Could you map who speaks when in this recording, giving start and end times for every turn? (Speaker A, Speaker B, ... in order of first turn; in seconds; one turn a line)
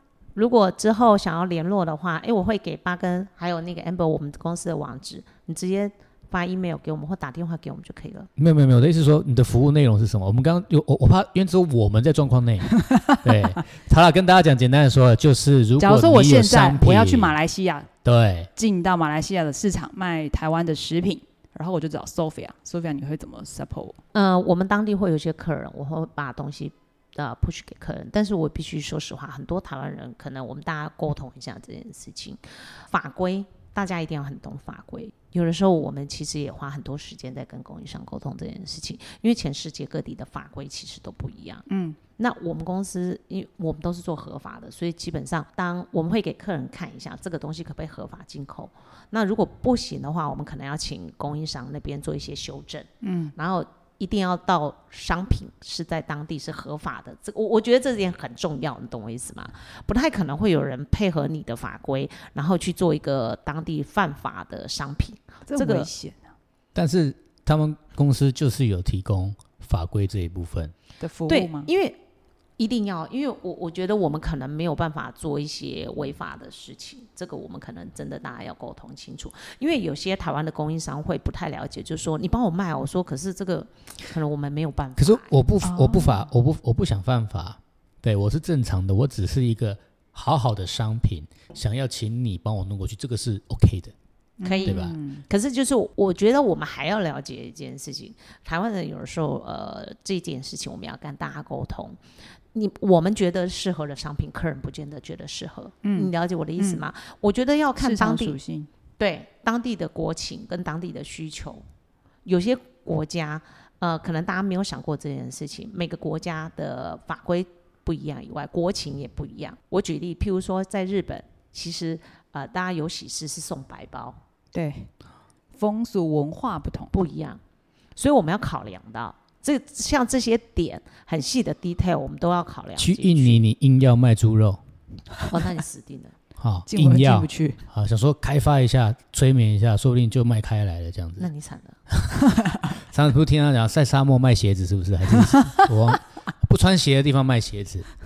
Speaker A: 0.3-8.3
Speaker B: 8.4-17.4
Speaker C: 12.9-13.6
Speaker C: 15.8-17.9
Speaker B: 18.0-18.5
Speaker C: 18.6-24.0
Speaker A: 24.1-41.7
Speaker C: 41.7-42.0
Speaker A: 42.2-65.9
Speaker C: 53.0-53.3
Speaker C: 65.5-66.3
Speaker B: 66.8-70.7
Speaker C: 71.0-71.7
Speaker A: 71.3-72.0
Speaker A: 72.6-85.4
Speaker B: 85.0-93.9
Speaker C: 85.6-86.3
Speaker C: 94.4-95.2
Speaker A: 94.4-102.0
Speaker B: 94.7-95.0
Speaker A: 102.5-108.4
Speaker C: 105.8-106.8
Speaker C: 107.8-108.7
Speaker A: 109.0-111.6
Speaker A: 112.2-124.2
Speaker C: 124.5-124.9
Speaker C: 125.5-126.9
Speaker A: 126.9-127.4
Speaker A: 128.0-133.4
Speaker B: 132.8-134.6
Speaker A: 135.3-136.2
Speaker B: 136.4-141.3
Speaker C: 136.7-137.6
Speaker A: 141.2-141.8
Speaker B: 141.9-147.9
Speaker C: 145.2-146.0